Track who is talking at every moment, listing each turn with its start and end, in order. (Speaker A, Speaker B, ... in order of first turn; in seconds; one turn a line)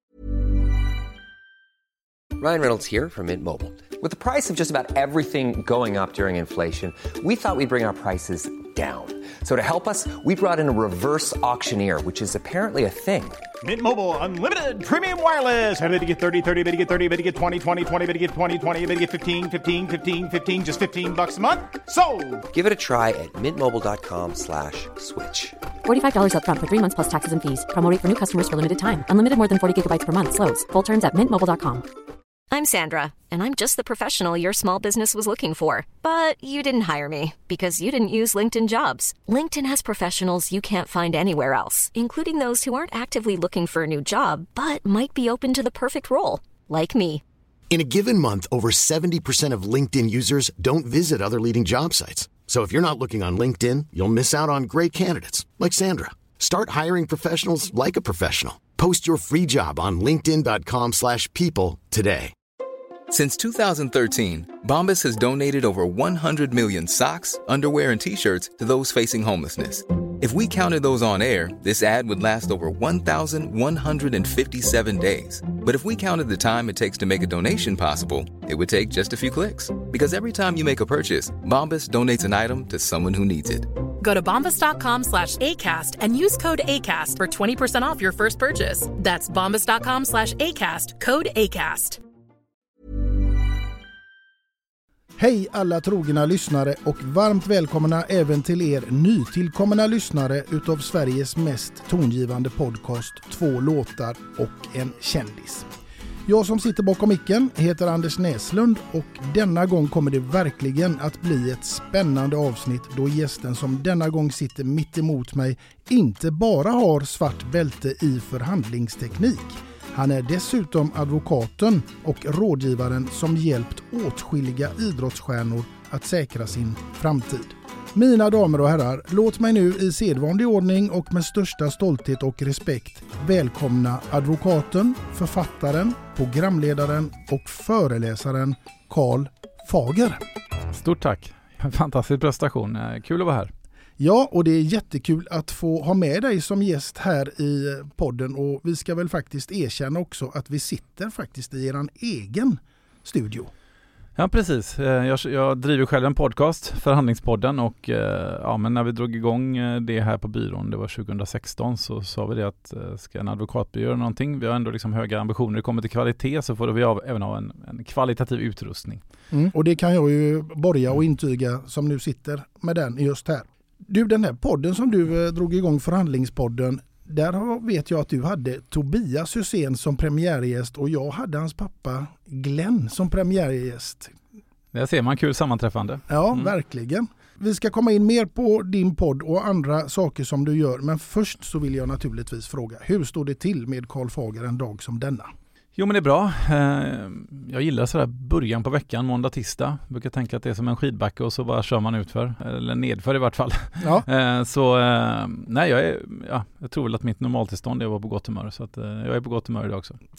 Speaker A: 2.4-13.4
Speaker B: 13.6-22.5
Speaker A: 22.5-25.6
Speaker C: 25.9-31.9
Speaker D: 32.5-47.2
Speaker E: 47.7-62.3
Speaker F: 63.1-83.7
Speaker G: 84.0-92.0
Speaker H: 95.2-105.7
Speaker H: 106.3-140.2
Speaker I: 140.7-143.5
Speaker H: 144.0-153.5
Speaker I: 154.2-169.0
Speaker H: 169.3-184.2
Speaker I: 184.7-186.5
Speaker H: 186.1-195.3
Speaker I: 195.8-210.0
Speaker H: 203.8-204.1